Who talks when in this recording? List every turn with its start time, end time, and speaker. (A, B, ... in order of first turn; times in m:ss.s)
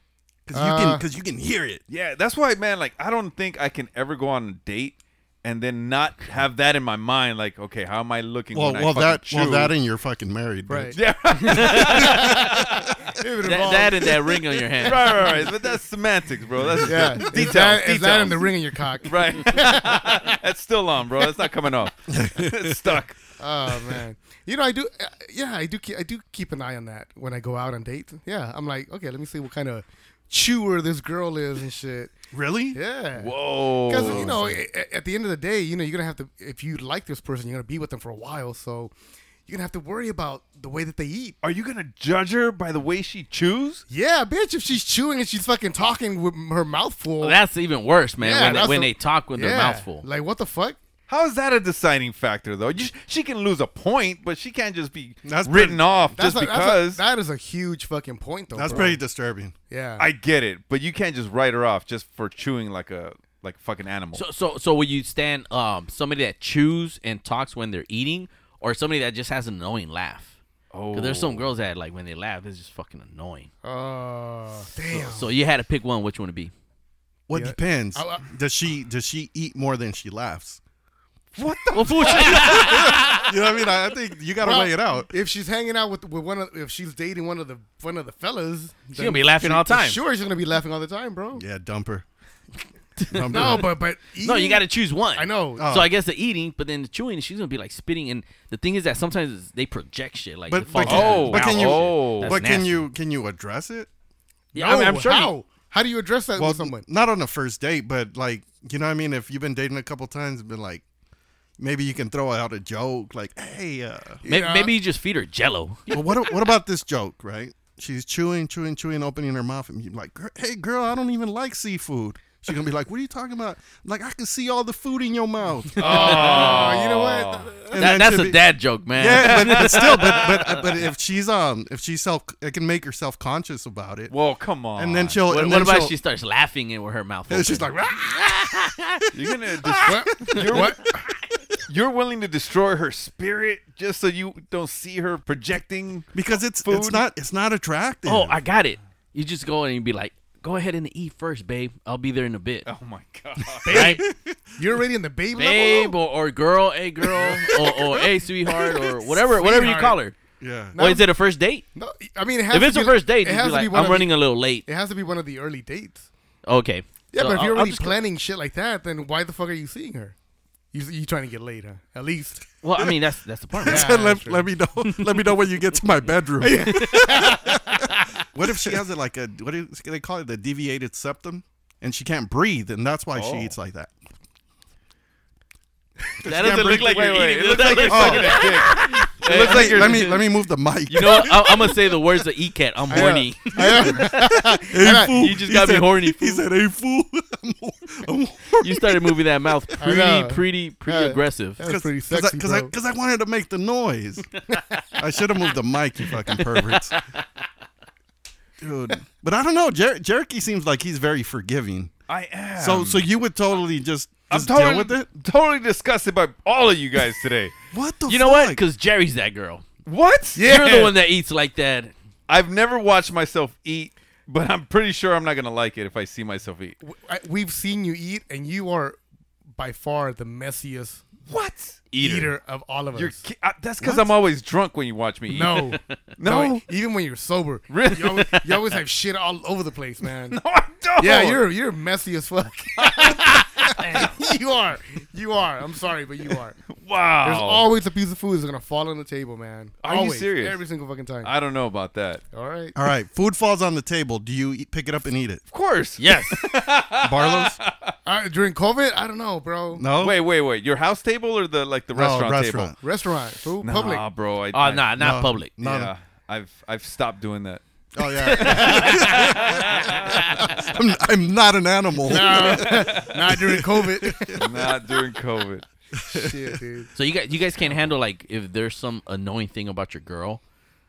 0:00.5-0:01.8 A
0:00.5-0:01.0 B
0:01.9-0:09.7 C
0:08.5-0:11.0 A
0:10.7-0:11.0 B
0:10.9-0:12.8 C
0:11.4-0:12.1 D
0:12.1-0:12.5 A
0:13.2-0:14.4 B
0:13.4-0:15.1 D
0:14.8-0:18.5 C
0:14.9-0:15.4 B
0:16.8-0:20.3 B
0:19.0-0:23.2 C
0:22.1-0:23.0 A
0:23.4-0:32.1 B
0:32.3-0:32.8 A
0:32.7-0:33.4 B
0:33.1-0:34.4 C
0:33.9-0:38.9 B
0:33.9-0:34.6 A
0:39.5-0:41.4 B
0:41.4-0:43.8 C
0:43.9-0:47.4 B
0:47.2-0:50.0 D
0:48.2-0:50.8 B
0:51.1-0:57.0 C
0:55.2-0:55.9 A
0:56.1-0:59.0 B
0:58.5-0:59.5 A
0:59.7-1:00.0 B
1:00.0-1:04.2 C
1:04.1-1:10.3 D
1:10.7-1:11.5 C
1:10.9-1:13.5 D
1:13.6-1:15.3 B
1:14.9-1:16.5 D
1:17.3-1:20.6 A
1:17.3-1:18.2 B
1:21.3-1:22.3 C
1:21.7-1:23.2 D
1:22.0-1:23.2 B
1:22.7-1:25.1 A
1:24.4-1:31.4 B
1:28.9-1:30.0 D
1:31.3-1:32.0 A
1:33.0-1:33.7 D
1:33.0-1:33.7 A
1:33.3-1:35.7 B
1:34.2-1:42.8 D
1:35.6-1:35.9 A
1:40.5-1:43.9 A
1:40.8-1:42.4 C
1:44.5-1:45.3 D
1:44.5-1:46.8 B
1:46.4-1:50.8 A
1:51.6-1:54.2 A
1:54.2-1:54.8 B
1:54.2-1:56.0 D
1:55.9-2:06.4 A
2:05.8-2:07.6 C
2:05.8-2:07.7 B
2:07.7-2:14.1 A
2:07.8-2:10.1 D
2:09.2-2:10.7 C
2:14.1-2:15.2 C
2:14.7-2:15.9 A
2:15.3-2:18.8 D
2:17.3-2:18.3 A
2:19.1-2:20.9 C
2:19.5-2:20.0 A
2:19.8-2:20.8 B
2:21.7-2:26.1 C
2:26.1-2:28.4 A
2:26.6-2:27.0 C
2:28.0-2:32.6 D
2:32.6-2:33.9 C
2:33.7-2:34.0 B
2:33.7-2:34.0 D
2:33.7-2:34.4 A
2:34.6-2:36.0 B
2:35.3-2:40.1 D
2:37.2-2:37.9 A
2:39.1-2:40.0 B
2:40.4-2:40.8 A
2:40.7-2:41.1 B
2:40.8-2:41.6 D
2:41.7-2:46.1 B
2:42.5-2:44.6 D
2:46.4-2:48.0 D
2:47.1-2:50.1 B
2:50.7-2:52.4 B
2:52.6-2:54.0 D
2:53.6-3:03.9 A
2:53.6-2:54.5 B
2:54.8-2:55.4 D
2:56.4-2:57.5 B
2:56.4-2:57.3 D
3:03.1-3:03.6 C
3:06.2-3:07.1 A
3:06.2-3:10.2 D
3:06.7-3:10.1 C
3:07.9-3:11.8 A
3:10.9-3:14.3 D
3:12.9-3:15.4 B
3:13.6-3:14.0 A
3:14.6-3:19.2 A
3:15.0-3:16.4 D
3:18.6-3:21.6 D
3:19.8-3:22.7 B
3:21.6-3:24.3 A
3:24.5-3:24.8 B
3:25.0-3:26.9 A
3:28.6-3:31.9 A
3:32.1-3:33.0 C
3:32.6-3:35.1 A
3:34.3-3:37.5 C
3:37.7-3:38.6 A
3:38.1-3:39.6 D
3:39.8-3:40.5 C
3:40.4-3:41.0 B
3:40.4-3:41.9 D
3:42.3-3:46.8 C
3:46.8-3:49.0 B
3:49.6-3:51.0 B
3:51.3-3:51.9 C
3:51.9-3:52.3 D
3:52.0-3:53.2 B
3:52.9-3:56.6 C
3:53.8-3:54.1 B
3:55.3-4:00.4 B
3:57.7-3:58.3 C
4:00.3-4:01.4 C
4:01.0-4:06.6 B
4:02.8-4:03.4 C
4:06.7-4:07.6 C
4:07.2-4:11.3 B
4:09.8-4:10.6 C
4:11.2-4:12.2 C
4:12.3-4:12.8 B
4:12.7-4:15.4 A
4:15.5-4:17.9 C
4:16.0-4:16.4 D
4:17.0-4:17.6 A
4:18.0-4:19.8 B
4:19.7-4:20.2 A
4:20.0-4:22.7 C
4:21.9-4:22.7 A
4:22.8-4:24.0 B
4:23.6-4:25.0 C
4:24.5-4:25.5 D
4:25.0-4:25.9 A
4:25.6-4:27.6 C
4:27.9-4:34.5 A
4:28.3-4:29.5 D
4:28.4-4:30.2 C
4:28.4-4:29.0 B
4:32.1-4:34.4 B
4:32.3-4:33.1 C
4:34.3-4:35.6 C
4:36.0-4:36.6 A
4:36.1-4:36.9 B
4:36.9-4:40.4 D